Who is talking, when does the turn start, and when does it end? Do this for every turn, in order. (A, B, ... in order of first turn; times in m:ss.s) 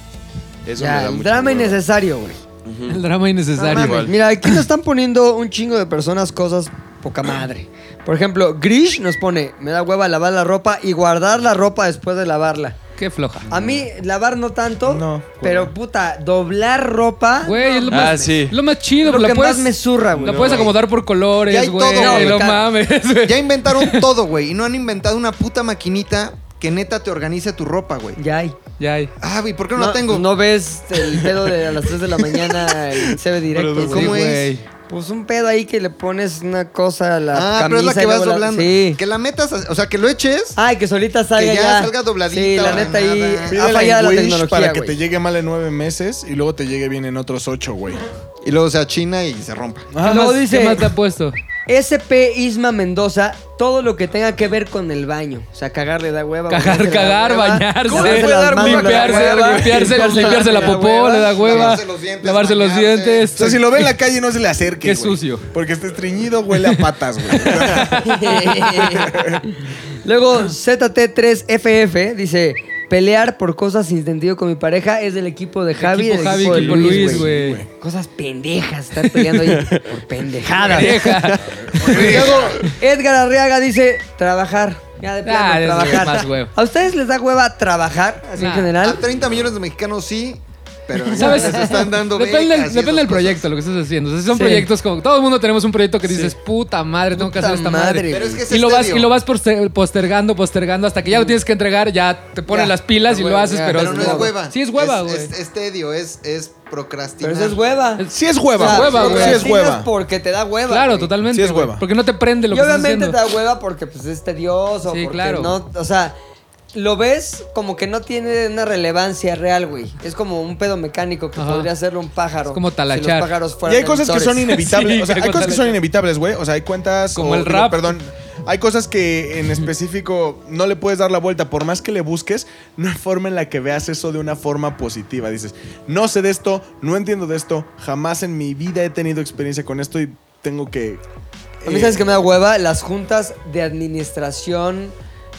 0:00.6-0:01.8 A
0:00.8-0:02.4 B
0:02.6-0:03.0 A
0:02.9-0:04.6 C
0:03.6-0:12.8 B
0:03.7-0:04.1 A
0:13.0-0:13.4 C
0:13.5-0:18.4 B
0:14.8-0:15.7 D
0:17.4-0:24.1 C
0:17.9-0:18.6 A
0:19.0-0:20.7 B
0:20.2-0:20.6 A
0:21.5-0:22.5 E
0:22.0-0:22.6 B
0:23.2-0:28.2 E
0:28.2-0:28.6 B
0:28.8-0:29.1 C
0:29.2-0:30.3 E
0:29.8-0:34.2 B
0:33.8-0:34.6 C
0:33.8-0:34.5 E
0:34.9-0:39.0 B
0:37.3-0:40.6 E
0:40.6-0:45.0 B
0:41.4-0:43.6 E
0:43.5-0:48.0 D
0:48.4-0:49.9 E
0:49.9-0:50.3 D
0:50.0-0:50.9 B
0:50.0-0:51.4 C
0:51.7-1:01.8 B
0:56.5-1:03.9 C
0:57.9-0:59.8 A
1:01.4-1:03.5 E
1:03.3-1:09.4 D
1:04.8-1:05.5 C
1:07.4-1:07.9 C
1:08.0-1:21.3 B
1:15.8-1:17.6 C
1:16.3-1:17.7 D
1:19.6-1:19.8 A
1:20.6-1:21.6 C
1:21.7-1:22.5 D
1:21.8-1:22.7 E
1:21.8-1:29.0 B
1:25.2-1:26.5 C
1:28.4-1:28.7 C
1:28.8-1:33.4 E
1:31.1-1:45.3 C
1:31.1-1:31.8 B
1:34.3-1:34.7 B
1:37.1-1:38.4 B
1:38.1-1:39.1 E
1:41.1-1:41.4 B
1:42.5-1:44.3 B
1:43.7-1:47.6 E
1:47.2-1:51.1 B
1:48.0-1:49.4 C
1:48.1-1:49.9 D
1:48.9-1:49.4 E
1:50.7-1:53.2 C
1:51.2-1:51.8 D
1:52.5-1:56.1 B
1:54.9-1:55.5 C
1:56.7-2:04.4 B
2:01.4-2:01.7 C
2:02.5-2:03.3 C
2:03.6-2:21.0 D
2:04.5-2:05.8 C
2:07.1-2:07.9 C
2:21.6-2:22.0 D
2:21.6-2:24.9 B